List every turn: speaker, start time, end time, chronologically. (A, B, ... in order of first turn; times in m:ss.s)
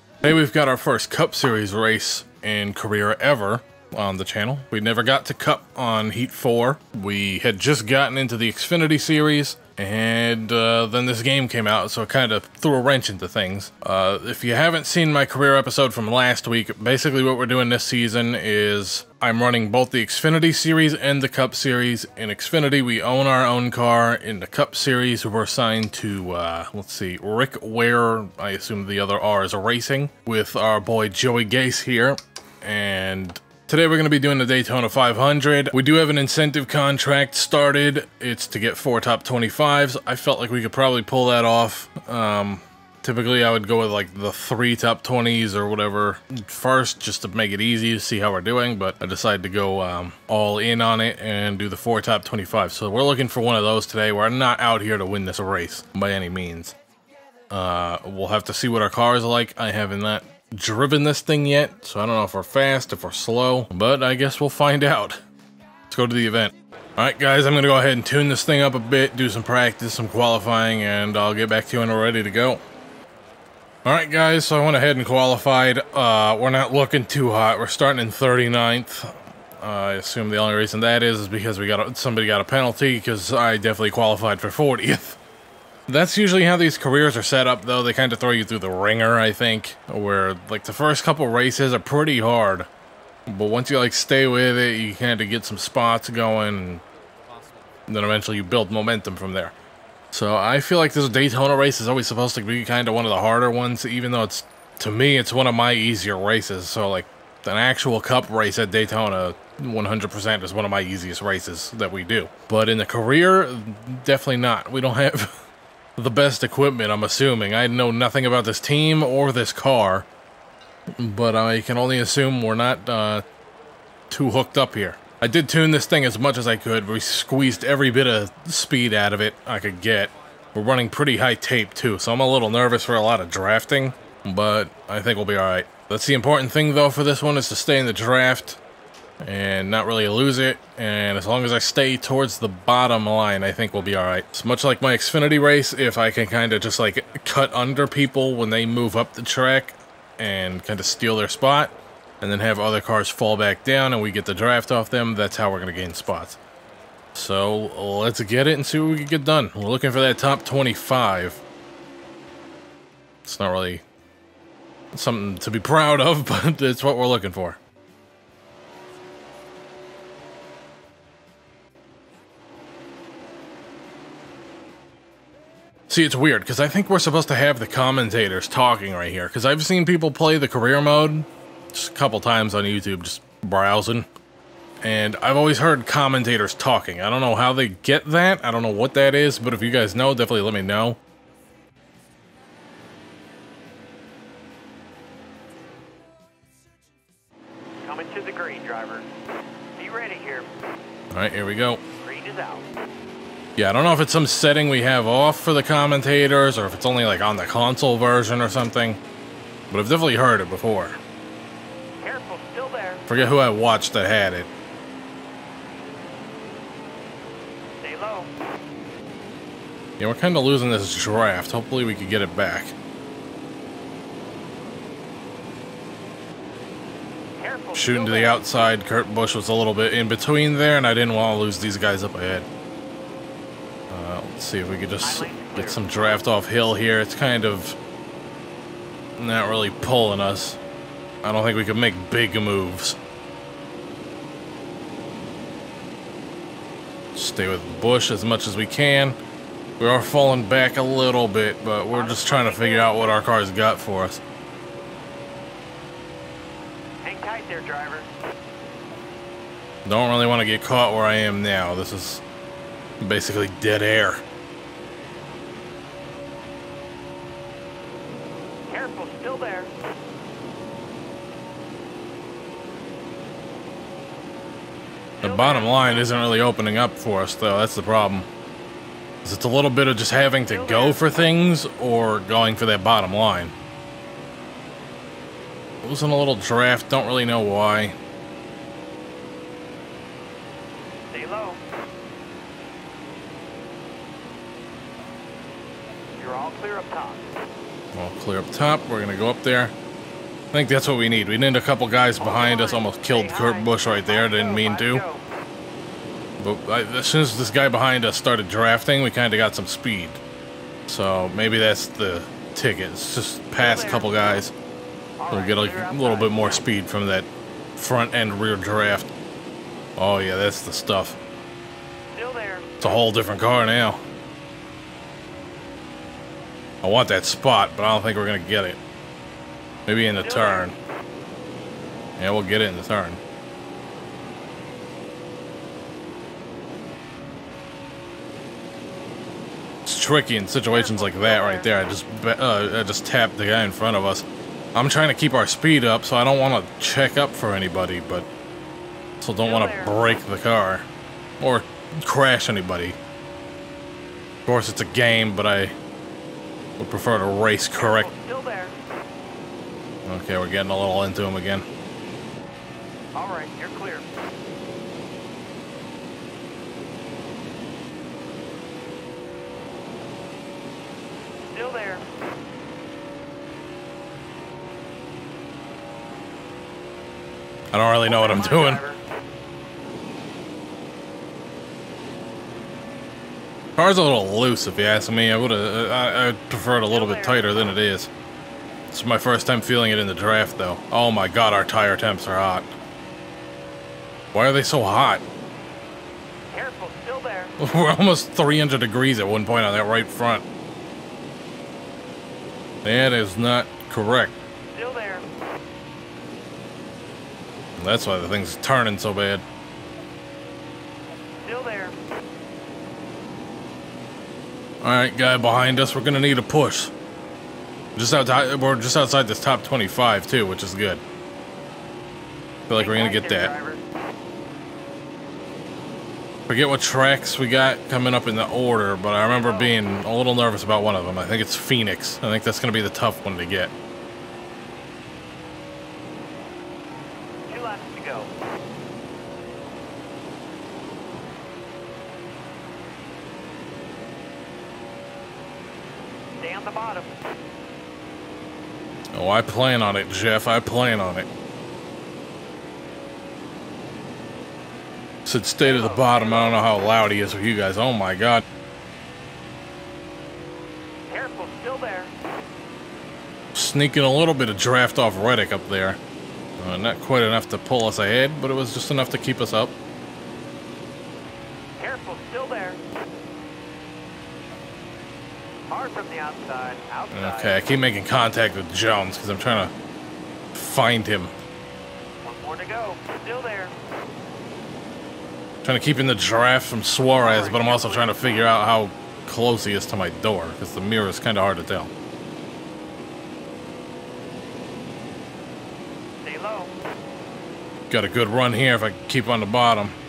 0:00.2-0:56.7 A
0:57.5-1:05.2 A
1:05.9-1:12.6 A
1:13.8-1:25.2 A
1:25.9-1:32.7 A
1:33.3-1:36.8 A
1:37.9-1:39.5 A
1:40.1-1:55.4 A
1:56.0-2:00.0 A
2:01.0-2:03.2 A
2:04.1-2:18.6 A
2:19.2-2:36.4 A
2:37.1-2:41.4 A
2:43.2-2:43.8 A
2:44.9-2:47.6 A
2:55.9-3:04.1 A
3:04.8-3:11.0 A
3:17.8-3:19.1 B
3:19.8-3:20.5 B
3:21.1-3:21.8 A
3:22.0-3:22.6 B
3:23.6-3:29.0 A
3:29.7-3:31.0 A
3:32.0-3:33.0 B
3:33.1-3:34.5 A
3:37.8-3:38.3 B
3:40.0-3:42.7 A
3:47.4-3:48.7 B
3:47.7-3:52.5 A
3:53.9-3:57.8 A
3:55.0-3:56.2 B
3:59.2-4:00.6 A
4:01.2-4:03.0 A
4:07.1-4:09.2 A
4:09.8-4:14.2 A
4:11.9-4:13.2 B
4:17.0-4:18.1 B
4:19.8-4:22.2 A
4:23.0-4:24.2 A
4:28.7-4:29.7 B
4:35.2-4:36.1 B
4:35.2-4:38.3 A
4:39.2-4:43.5 A
4:40.5-4:41.0 B
4:45.8-4:47.9 A
4:51.1-4:51.6 B
4:56.2-4:57.2 B
4:57.9-4:59.7 A
5:00.5-5:05.0 A
5:02.2-5:05.2 B
5:06.4-5:10.2 A
5:10.9-5:14.5 A
5:13.6-5:14.4 B
5:15.2-5:16.6 B
5:15.3-5:19.1 A
5:20.0-5:21.2 A
5:22.1-5:22.8 B
5:22.8-5:24.0 A
5:26.8-5:28.8 A
5:29.9-5:30.7 A
5:30.1-5:30.6 B
5:32.2-5:33.2 A
5:39.8-5:48.3 A
5:40.7-5:41.7 B
5:49.2-5:50.9 A
5:49.4-5:50.0 B
5:51.4-5:53.0 A
5:54.4-5:55.7 A
5:56.8-5:58.1 A
5:57.8-5:58.8 B
6:00.1-6:01.6 A
6:03.1-6:04.0 B
6:11.5-6:12.0 B
6:17.7-6:18.8 A
6:18.0-6:19.0 B
6:23.8-6:28.1 A
6:26.9-6:27.7 B
6:28.9-6:32.7 A
6:34.3-6:35.2 A
6:36.5-6:37.6 B
6:37.6-6:40.4 A
6:42.8-6:44.3 A
6:44.7-6:45.2 B
6:47.8-6:49.4 A
6:51.4-6:52.0 B
6:54.8-6:56.9 A
6:58.0-7:01.0 A
7:02.7-7:03.5 A
7:02.7-7:03.8 B
7:06.5-7:13.7 A
7:09.2-7:09.8 B
7:17.5-7:18.3 B
7:26.4-7:27.1 B
7:29.1-7:31.3 A
7:35.2-7:38.4 A
7:35.6-7:36.9 B
7:41.1-7:42.1 B
7:43.5-7:46.0 A
7:46.6-7:49.7 A
7:51.8-7:52.8 B
7:55.7-7:57.6 B
7:57.1-7:59.7 A
8:00.5-8:01.3 A
8:02.2-8:03.7 B
8:05.6-8:11.9 A
8:07.2-8:08.1 B
8:16.2-8:16.7 B
8:17.9-8:19.9 A